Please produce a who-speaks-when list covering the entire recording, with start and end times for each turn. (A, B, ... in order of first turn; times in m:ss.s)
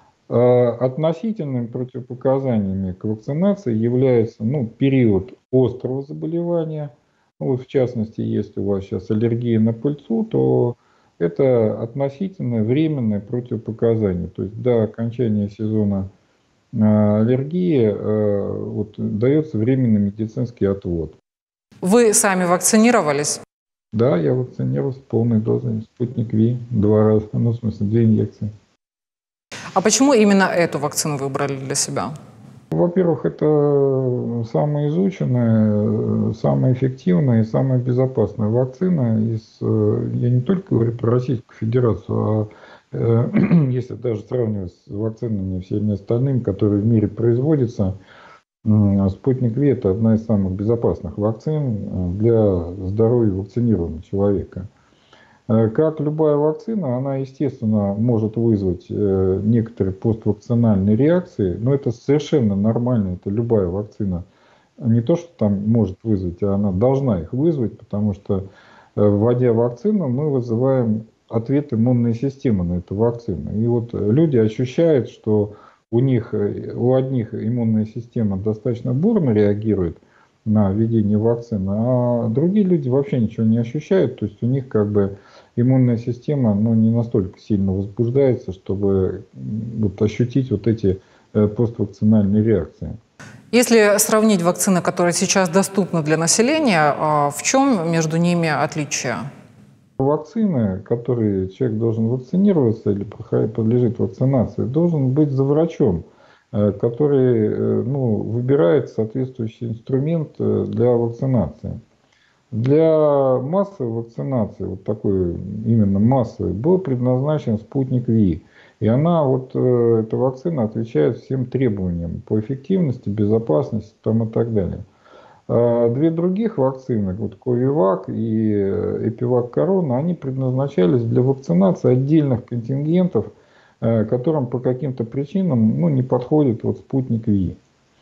0:00.3-0:16.1 A
0:16.7-0:21.2 A
0:21.8-0:23.4 B
0:23.9-0:28.5 A
0:29.7-0:32.1 B
0:32.7-0:48.0 A
0:48.6-0:54.7 A
0:55.5-1:04.2 A
1:04.8-1:32.9 A
1:33.5-1:39.2 B
1:40.0-1:51.8 A
1:52.5-2:04.8 A
2:05.5-2:17.6 A